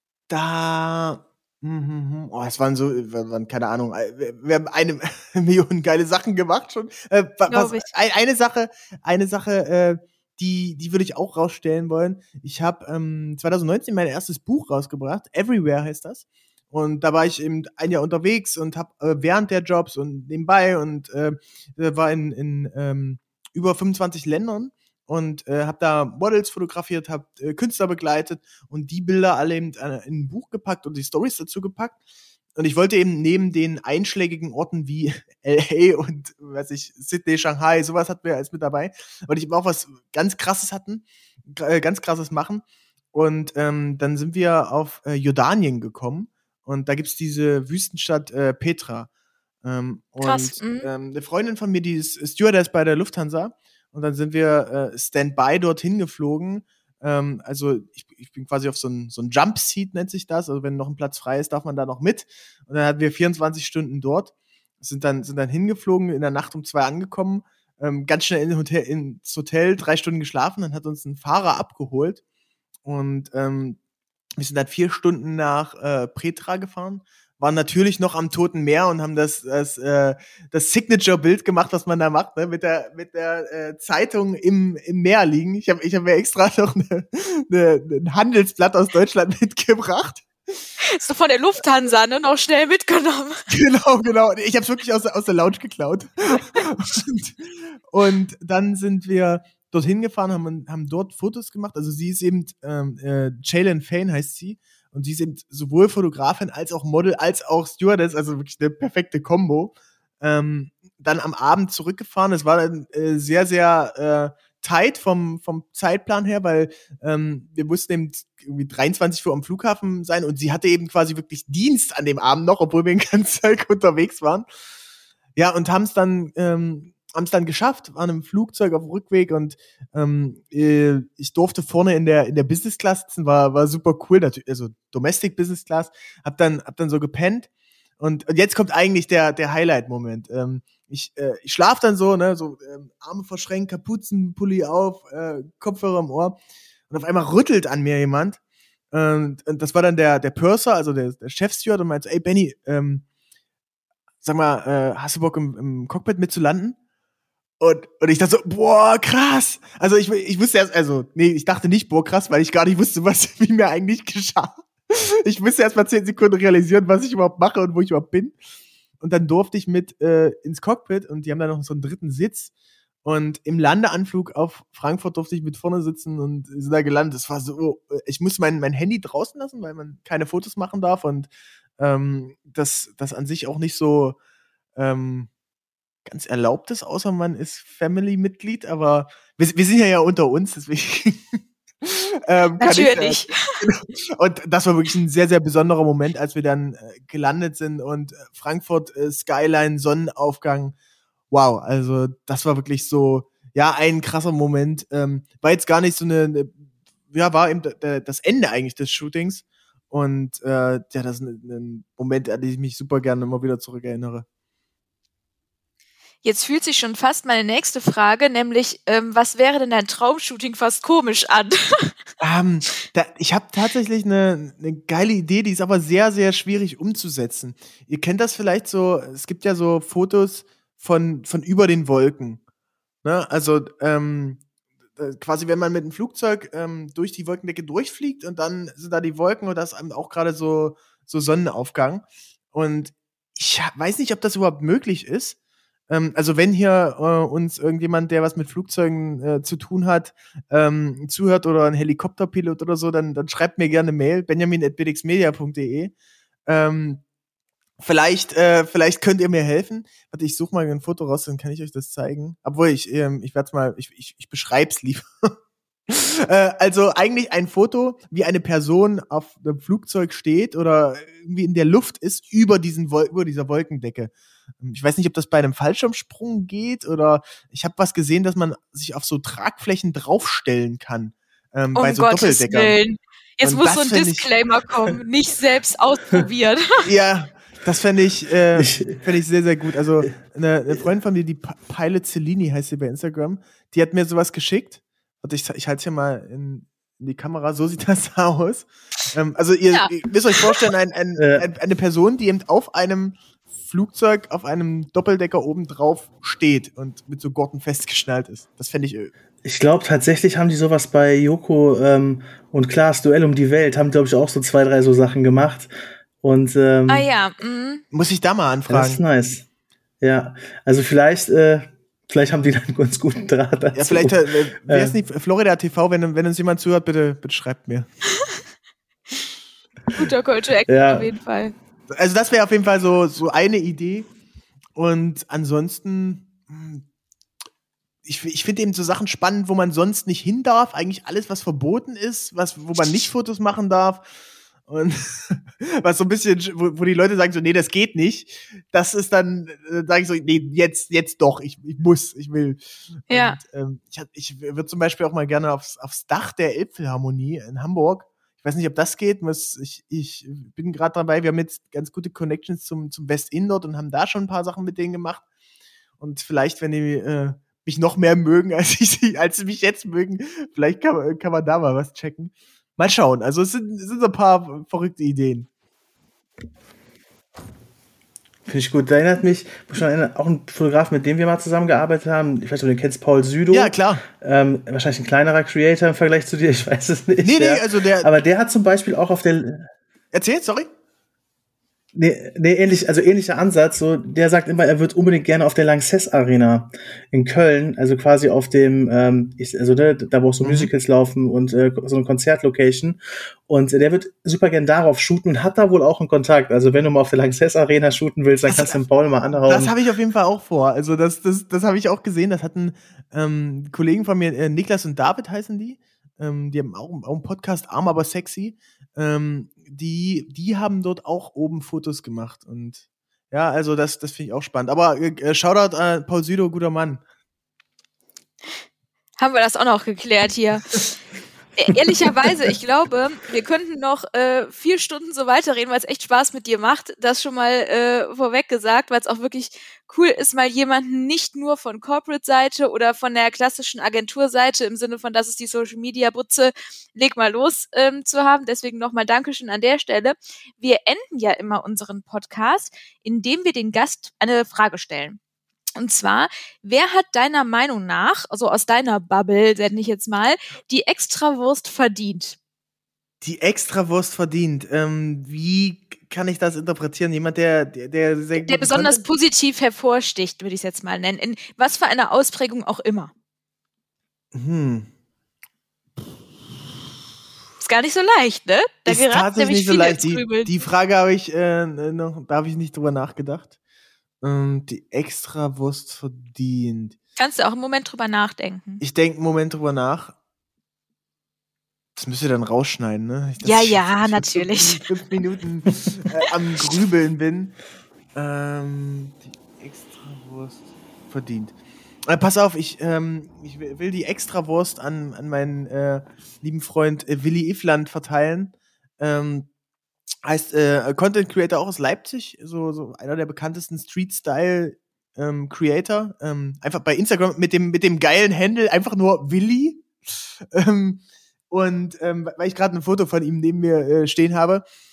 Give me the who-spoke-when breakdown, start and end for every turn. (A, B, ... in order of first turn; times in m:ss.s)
0:00.3-0:32.0 A
0:07.5-0:07.9 B
0:32.6-0:49.1 A
0:49.6-1:12.2 A
0:50.2-0:50.9 B
1:12.8-1:13.8 A
1:14.4-1:30.3 A
1:30.8-1:33.4 B
1:33.5-2:04.4 A
2:05.4-2:26.4 A
2:26.9-2:28.4 A
2:28.9-2:33.0 A
2:34.2-2:36.8 A
2:37.6-2:48.3 A
2:49.0-2:52.5 A
2:53.0-3:04.2 A
3:04.8-3:05.3 A
3:06.0-3:20.7 A
3:12.6-3:13.5 B
3:21.3-3:26.6 A
3:27.1-3:34.2 A
3:36.2-3:41.9 B
3:42.2-3:52.4 A
3:53.0-3:54.4 A
3:55.0-4:05.4 A
4:05.9-4:15.9 A
4:16.5-4:17.0 A
4:17.8-4:25.3 A
4:25.9-4:42.8 A
4:41.7-4:46.7 B
4:43.4-4:44.3 A
4:46.8-5:09.1 A
4:48.6-4:49.0 C
5:01.2-5:01.5 C
5:09.4-5:17.1 C
5:16.9-5:17.8 B
5:17.9-5:19.0 A
5:18.7-5:19.4 C
5:20.0-5:25.0 C
5:23.7-5:27.8 A
5:29.9-5:31.5 B
5:30.7-5:31.1 C
5:31.9-5:34.1 A
5:34.8-5:36.8 A
5:38.0-5:44.1 A
5:44.7-6:05.2 A
5:53.1-5:53.4 B
6:06.0-6:15.5 A
6:18.5-6:29.7 C
6:23.5-6:24.0 A
6:27.2-6:28.1 A
6:30.1-6:30.7 A
6:31.9-6:49.7 C
6:40.4-6:40.7 A
6:48.5-6:48.8 A
6:49.4-7:07.0 A
7:09.2-7:11.0 B
7:11.6-7:35.2 B
7:35.8-7:42.4 B
7:43.2-7:49.0 A
7:48.4-7:53.1 B
7:54.3-7:54.9 A
7:57.6-8:00.5 B
7:58.9-8:03.5 A
8:04.2-8:07.0 A
8:07.2-8:08.8 B
8:08.8-8:10.2 A
8:12.0-8:17.6 A
8:13.4-8:14.8 B
8:18.1-8:21.6 A
8:22.1-8:29.5 A
8:30.2-8:44.6 A